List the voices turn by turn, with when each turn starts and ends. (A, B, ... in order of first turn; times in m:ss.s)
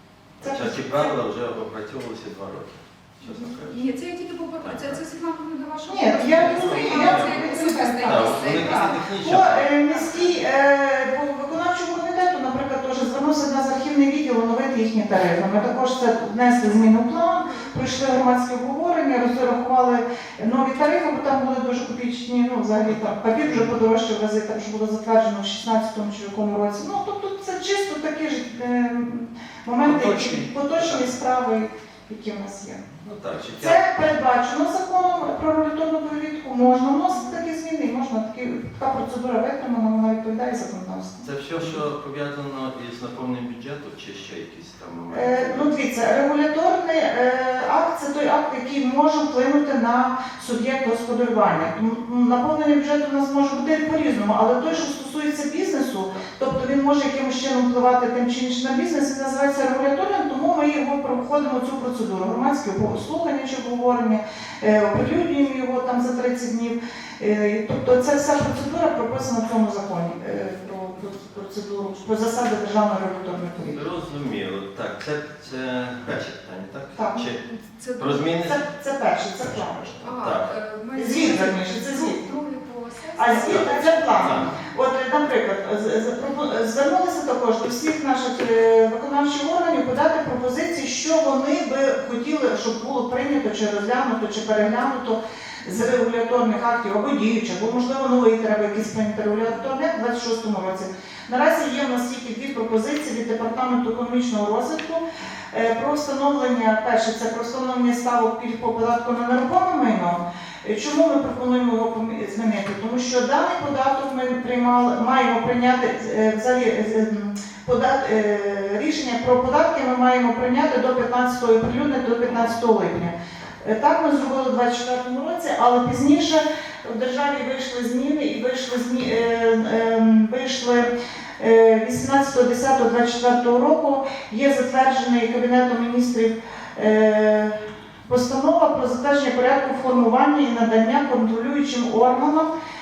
0:00.4-0:03.8 A
0:00.4-0:01.1 B
0:03.2-0:09.0 C
0:04.6-0:05.0 A
0:05.9-0:32.8 B
0:06.3-0:09.7 A
0:09.9-0:10.3 C
0:17.4-0:17.7 C
0:29.8-0:31.1 A
0:33.0-0:33.8 A
0:33.6-0:41.3 B
0:41.2-0:45.7 A
0:45.1-1:13.8 B
1:13.6-1:17.4 A
1:17.0-1:17.2 B
1:17.2-1:18.3 C
1:18.0-1:18.6 A
1:18.4-1:20.0 B
1:19.4-1:20.5 A
1:20.0-1:24.6 C
1:21.0-1:22.3 B
1:23.2-2:22.5 B
1:23.3-1:24.6 A